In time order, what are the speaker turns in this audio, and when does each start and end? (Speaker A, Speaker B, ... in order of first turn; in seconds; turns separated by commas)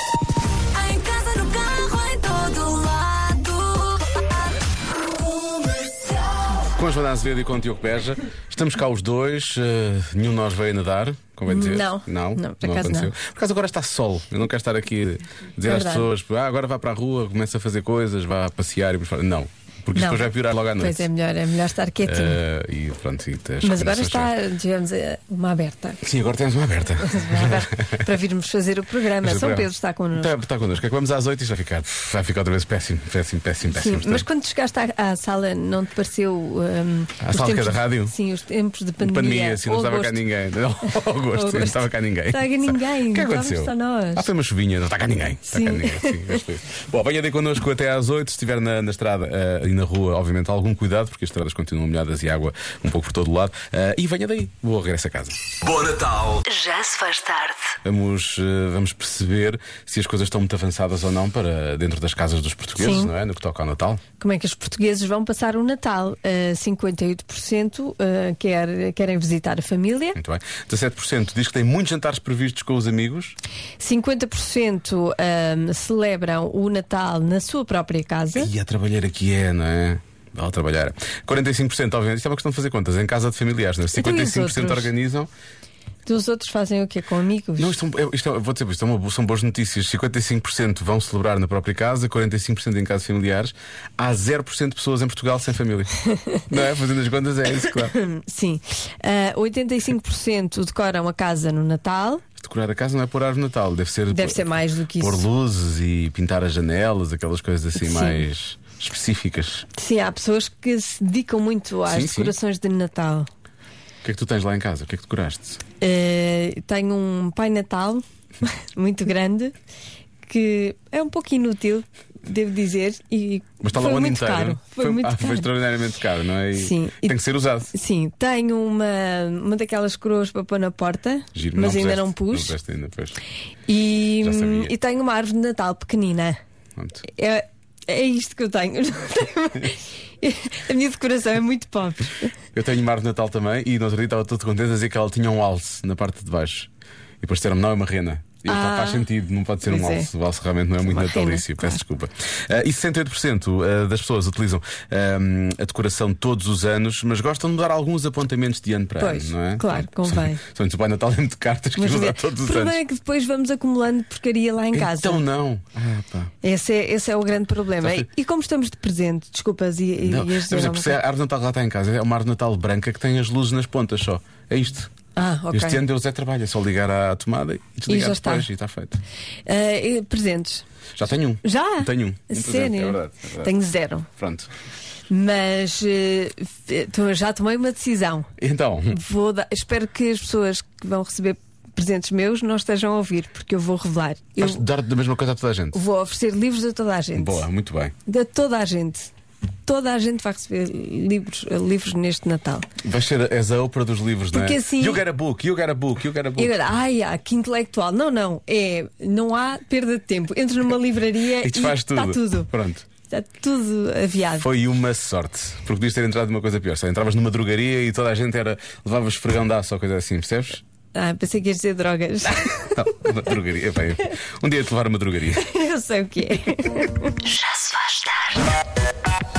Speaker A: 6.6-21.1, Speaker B: 11.5-13.1, Speaker B: 15.6-16.1, Speaker B: 19.9-22.4, Speaker A: 22.1-24.3, Speaker B: 23.6-26.0, Speaker A: 26.0-28.0, Speaker B: 27.0-30.3, Speaker A: 29.2-34.3, Speaker B: 33.7-40.3, Speaker A: 37.2-38.1, Speaker A: 39.0-55.4, Speaker B: 40.9-44.3, Speaker B: 45.5-46.4, Speaker C: 56.5-57.7, Speaker A: 57.8-64.0, Speaker B: 62.8-63.1, Speaker B: 64.2-70.2, Speaker A: 70.2-73.3, Speaker B: 73.8-78.5, Speaker A: 78.4-85.3, Speaker B: 83.9-84.9, Speaker B: 86.1-87.8, Speaker A: 87.6-95.9, Speaker B: 96.2-96.4, Speaker A: 96.5-97.9, Speaker B: 97.8-102.2, Speaker A: 102.4-109.7, Speaker B: 104.1-105.2, Speaker B: 107.8-108.2, Speaker B: 109.8-113.3, Speaker A: 111.9-112.3, Speaker A: 114.0-115.6, Speaker B: 115.8-119.5, Speaker B: 120.3-125.5, Speaker A: 123.6-127.7, Speaker B: 126.5-127.2, Speaker B: 127.7-132.6, Speaker A: 131.3-133.2, Speaker B: 133.7-136.4, Speaker A: 134.2-134.8, Speaker B: 137.0-142.3, Speaker A: 142.5-146.7, Speaker A: 147.2-162.8, Speaker B: 148.5-149.1, Speaker B: 149.6-150.1, Speaker B: 150.8-151.8, Speaker B: 159.0-160.4, Speaker B: 161.8-165.2, Speaker A: 164.7-166.3, Speaker B: 166.4-171.0, Speaker A: 170.0-174.9, Speaker B: 175.2-175.8, Speaker A: 175.5-179.0, Speaker B: 177.9-178.5, Speaker B: 179.5-180.7, Speaker A: 181.0-183.5, Speaker B: 181.4-184.1, Speaker A: 184.2-184.5, Speaker B: 185.1-188.3, Speaker A: 188.4-189.0, Speaker B: 188.9-194.6, Speaker A: 194.4-195.8, Speaker B: 195.7-197.4, Speaker A: 197.2-197.9, Speaker B: 198.1-199.1, Speaker B: 199.7-202.7, Speaker A: 202.8-206.6, Speaker B: 204.3-205.0, Speaker B: 206.4-214.5, Speaker A: 211.4-212.9, Speaker A: 214.4-220.6, Speaker B: 220.9-222.8, Speaker A: 222.8-225.4, Speaker B: 225.4-227.1, Speaker C: 227.3-228.4